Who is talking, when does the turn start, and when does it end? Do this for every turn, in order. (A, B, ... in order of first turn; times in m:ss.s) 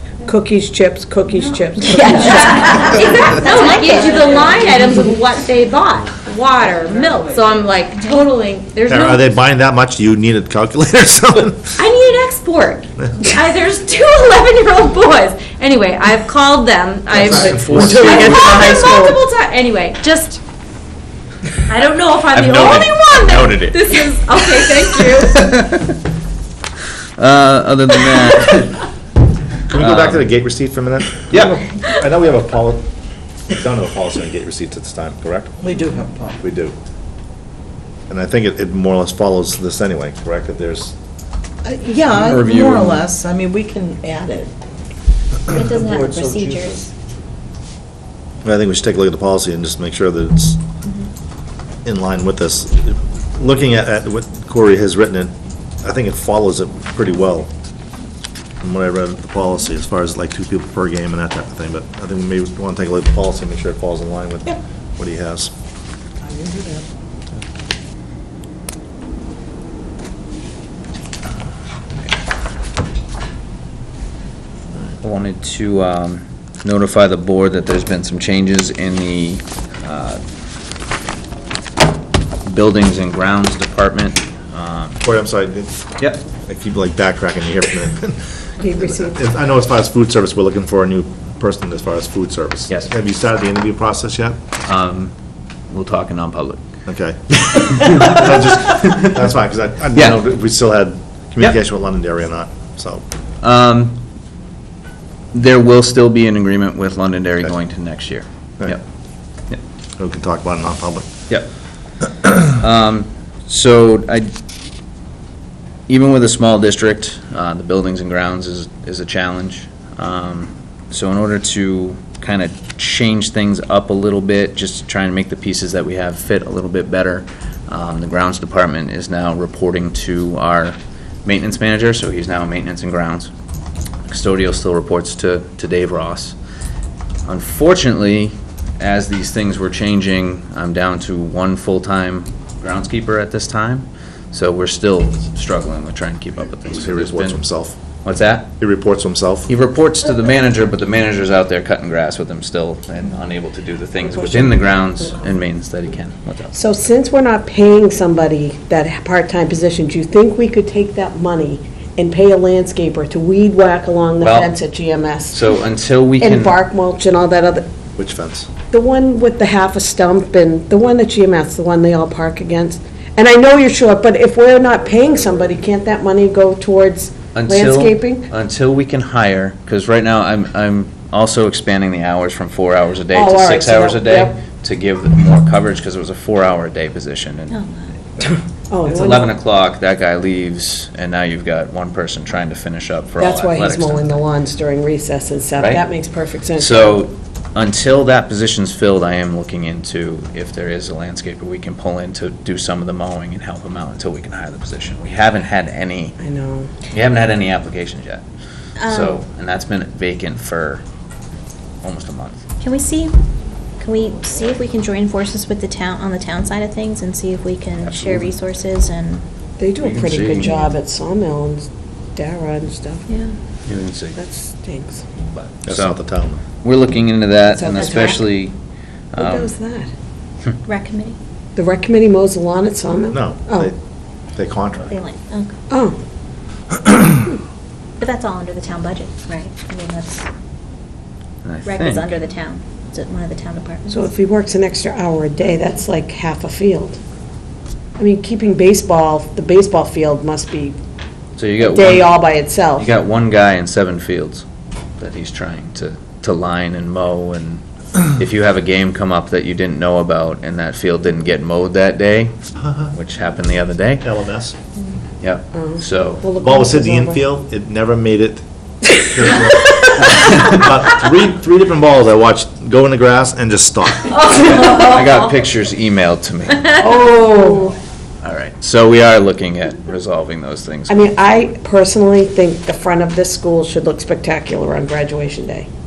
0:00.3-0:02.8 A
0:01.9-0:04.5 B
0:02.1-0:09.2 C
0:08.9-0:11.8 D
0:11.8-0:20.4 C
0:17.1-0:18.7 D
0:17.3-0:19.2 A
0:21.7-0:25.4 C
0:22.3-0:26.0 E
0:27.2-0:28.9 E
0:29.7-0:32.8 D
0:29.7-0:30.3 E
0:31.3-0:31.6 E
0:33.5-0:35.6 D
0:35.6-0:36.4 F
0:36.4-0:36.8 D
0:38.1-0:40.9 D
0:41.6-0:44.5 F
0:42.1-0:43.0 E
0:45.5-0:46.9 B
0:45.5-0:46.9 F
0:48.4-0:50.6 D
0:51.8-0:57.5 D
0:58.6-1:05.5 D
1:06.4-1:06.8 F
1:15.0-1:20.2 E
1:22.4-1:25.0 E
1:25.0-1:25.9 D
1:26.4-1:34.4 D
1:28.6-1:29.2 A
1:34.6-1:35.1 E
1:35.7-1:36.6 E
1:36.9-1:43.0 D
1:37.4-1:39.2 E
1:39.9-1:40.2 E
1:43.4-1:44.0 E
1:45.3-1:48.8 E
1:50.0-1:51.1 D
1:52.4-1:54.3 E
1:55.9-2:13.3 E
2:14.1-2:16.3 E
2:17.3-2:27.4 E
2:26.7-2:27.8 D
2:28.0-2:28.5 E
2:28.6-2:29.5 D
2:29.5-2:36.6 E
2:36.5-2:45.4 A
2:44.2-2:44.6 E
2:45.3-2:46.6 E
2:46.2-2:47.7 A
2:48.0-2:48.5 D
2:48.7-2:58.3 A
2:57.3-3:07.6 E
3:03.1-3:04.4 A
3:07.5-3:07.9 B
3:08.2-3:14.2 E
3:08.7-3:09.3 A
3:13.2-3:17.0 A
3:15.6-3:15.8 E
3:16.6-3:26.2 E
3:26.2-3:26.7 A
3:26.9-3:28.2 E
3:28.8-3:29.2 B
3:28.9-3:30.8 E
3:31.8-3:32.4 E
3:32.6-3:33.1 B
3:33.8-3:39.2 B
3:37.8-3:38.3 E
3:39.6-3:43.1 A
3:39.8-3:40.6 E
3:43.1-3:43.3 B
3:43.7-3:44.2 E
3:44.2-3:45.0 A
3:45.3-3:46.0 E
3:45.7-3:46.4 D
3:46.5-3:48.6 E
3:47.4-3:48.3 A
3:49.1-3:49.5 E
3:49.2-3:49.9 A
3:50.7-3:51.2 B
3:51.6-3:53.7 A
3:53.1-3:53.8 D
3:54.4-3:54.9 D
3:54.9-3:55.5 B
3:55.7-3:56.0 A
3:58.0-4:00.3 B
4:01.4-4:02.2 E
4:01.6-4:04.0 B
4:03.9-4:07.0 A
4:08.0-4:10.8 A
4:11.4-4:14.4 E
4:11.6-4:12.9 A
4:15.0-4:22.3 E
4:22.6-4:22.9 D
4:22.9-4:24.1 E
4:24.0-4:24.5 D
4:25.2-4:26.3 E
4:25.5-4:27.2 A
4:26.4-4:28.4 D
4:29.0-4:34.1 D
4:30.2-4:30.5 E
4:34.0-4:35.3 C
4:34.7-4:37.1 E
4:36.8-4:37.8 A
4:38.2-4:41.2 E
4:40.9-4:45.7 A